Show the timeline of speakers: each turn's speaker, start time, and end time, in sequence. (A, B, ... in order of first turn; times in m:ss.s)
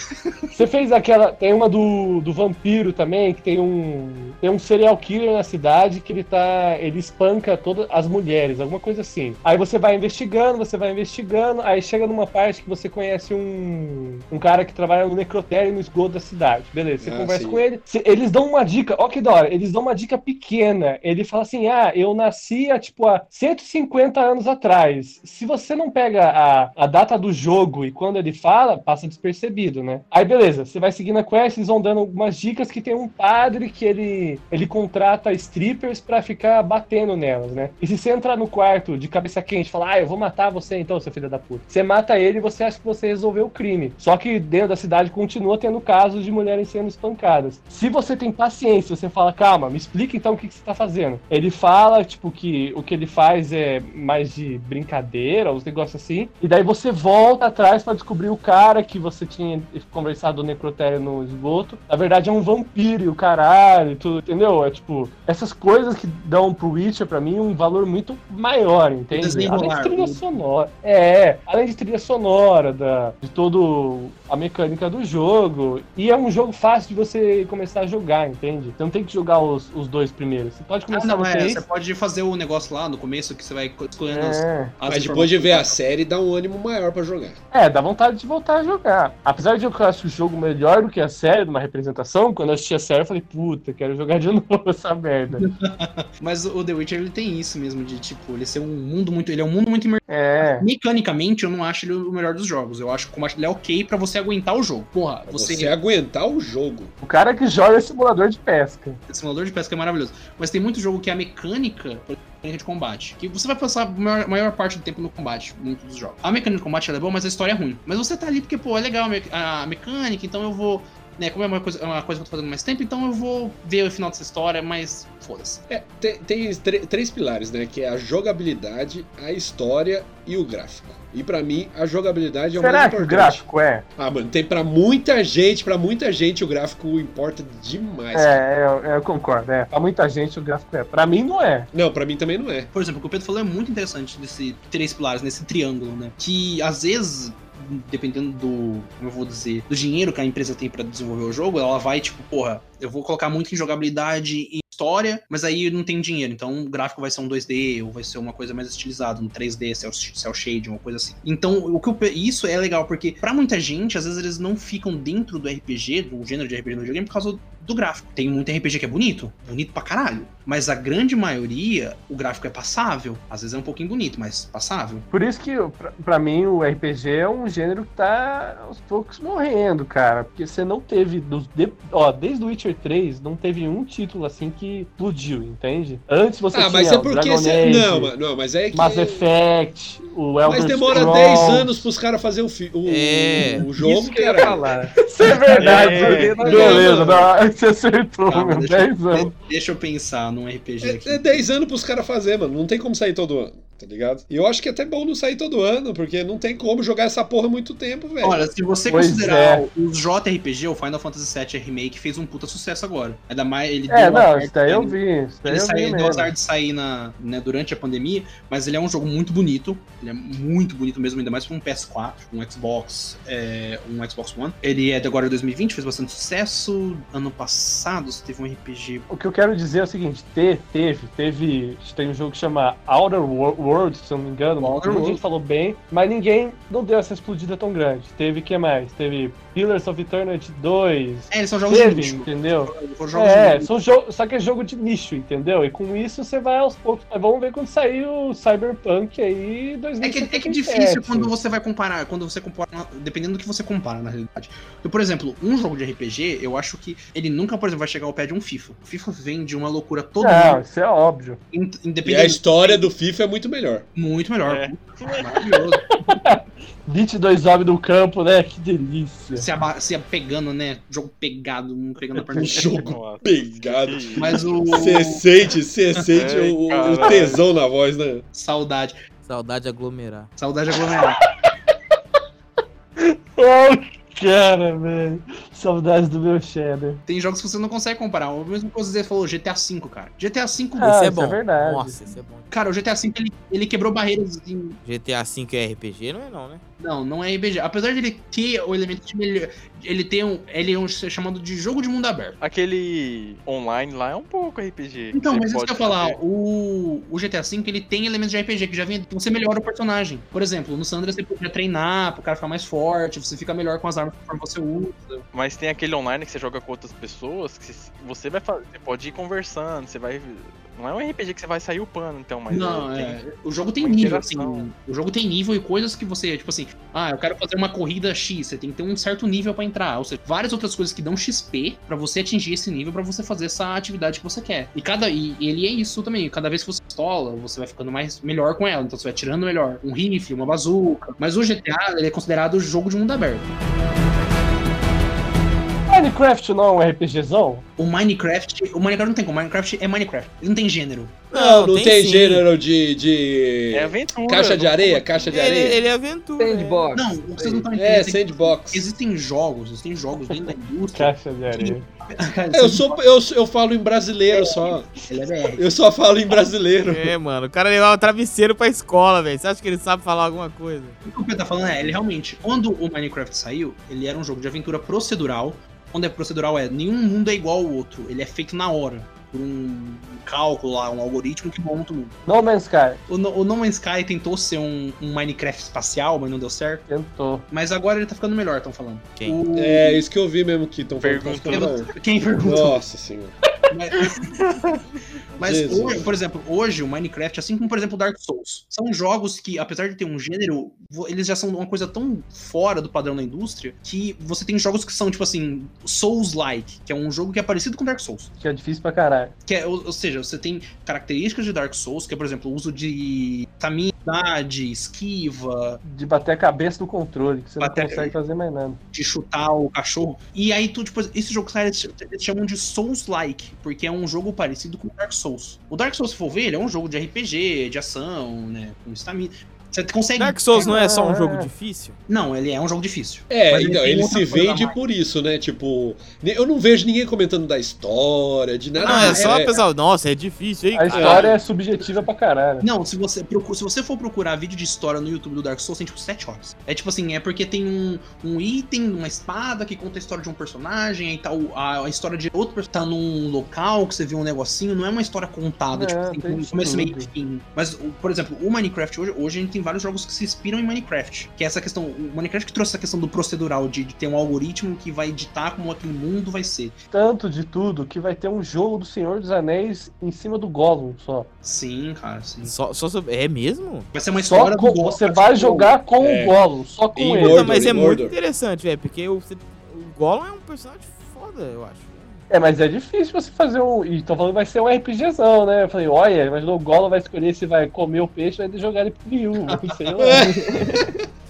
0:00.5-1:21.6 A
0:17.0-0:17.6 B
1:09.1-1:10.3 C
1:20.9-1:25.8 C
1:24.1-1:24.7 A
1:24.9-1:27.4 B
1:27.5-1:35.5 A
1:35.4-1:45.7 C
1:40.1-1:40.7 A
1:45.3-1:46.9 B
1:47.0-1:49.0 A
1:49.1-2:05.6 C
2:05.7-2:13.5 B
2:12.6-2:13.8 A
2:14.0-2:18.4 B
2:18.1-2:21.7 A
2:21.7-2:22.7 B
2:22.7-2:55.1 C
2:55.1-3:08.1 A
3:06.5-3:09.3 B
3:08.7-3:11.9 A
3:10.4-3:14.6 B
3:12.8-3:13.6 D
3:13.7-3:17.1 E
3:15.0-3:19.3 A
3:15.6-3:16.9 F
3:16.4-3:17.3 C
3:18.3-3:21.5 C
3:20.8-3:28.4 B
3:28.2-3:49.1 C
3:28.9-3:29.6 A
3:33.9-3:36.3 A
3:49.1-4:11.3 A
3:54.6-3:55.2 C
4:01.3-4:03.8 C
4:10.0-4:20.6 C
4:20.2-4:21.4 A
4:21.5-4:22.9 C
4:22.0-4:23.9 B
4:24.0-4:25.8 C
4:24.4-4:25.3 F
4:26.0-4:29.5 A
4:29.4-4:33.0 C
4:32.3-4:34.7 F
4:32.3-4:38.2 B
4:34.2-4:35.2 C
4:36.1-4:37.5 F
4:36.8-4:37.3 C
4:38.3-4:39.0 C
4:39.2-4:40.3 D
4:40.4-4:41.2 C
4:43.0-4:47.0 A
4:47.1-4:51.0 C
4:50.8-4:52.1 A
4:50.9-4:52.5 D
4:52.5-4:54.8 C
4:54.8-4:56.6 D
4:56.8-5:02.4 C
5:02.4-5:06.2 F
5:05.1-5:15.2 C
5:15.3-5:23.2 F
5:22.5-5:43.5 C
5:23.8-5:24.7 F
5:45.9-5:47.6 A
5:47.8-5:51.2 C
5:51.3-5:52.5 D
5:51.3-5:55.8 B
5:53.7-5:55.6 F
5:55.3-5:56.9 D
5:56.4-5:57.7 E
5:56.9-6:03.0 C
5:57.7-5:58.9 B
6:01.0-6:01.9 A
6:02.5-6:04.9 B
6:04.3-6:05.7 C
6:05.6-6:07.2 B
6:06.9-6:11.0 D
6:11.0-6:22.2 C
6:22.3-6:23.0 A
6:23.1-6:26.9 C
6:26.9-6:27.5 A
6:27.5-6:30.0 C
6:29.5-6:31.9 B
6:31.0-6:31.9 F
6:31.5-6:32.8 C
6:32.4-6:33.4 B
6:33.7-6:34.4 C
6:35.4-6:48.3 C
6:35.4-6:36.2 B
6:48.4-6:49.4 A
6:49.5-6:55.8 C
6:55.8-6:58.8 A
6:57.6-6:58.1 C
6:58.9-7:10.7 C
7:10.2-7:12.0 D
7:10.6-7:11.5 A
7:12.1-7:14.8 C
7:13.3-7:19.6 B
7:18.8-7:19.6 C
7:18.8-7:21.3 D
7:20.7-7:22.7 A
7:20.9-7:21.3 B
7:22.6-7:46.8 C
7:35.7-7:37.1 A
7:46.9-7:51.3 A
7:51.4-7:52.6 C
7:52.4-7:53.9 D
7:53.9-7:55.8 C
7:54.2-7:57.5 A
7:56.0-7:56.4 B
7:57.0-7:58.2 B
7:57.2-8:02.2 D
8:02.3-8:10.3 A
8:10.0-8:11.0 B
8:10.2-8:10.8 E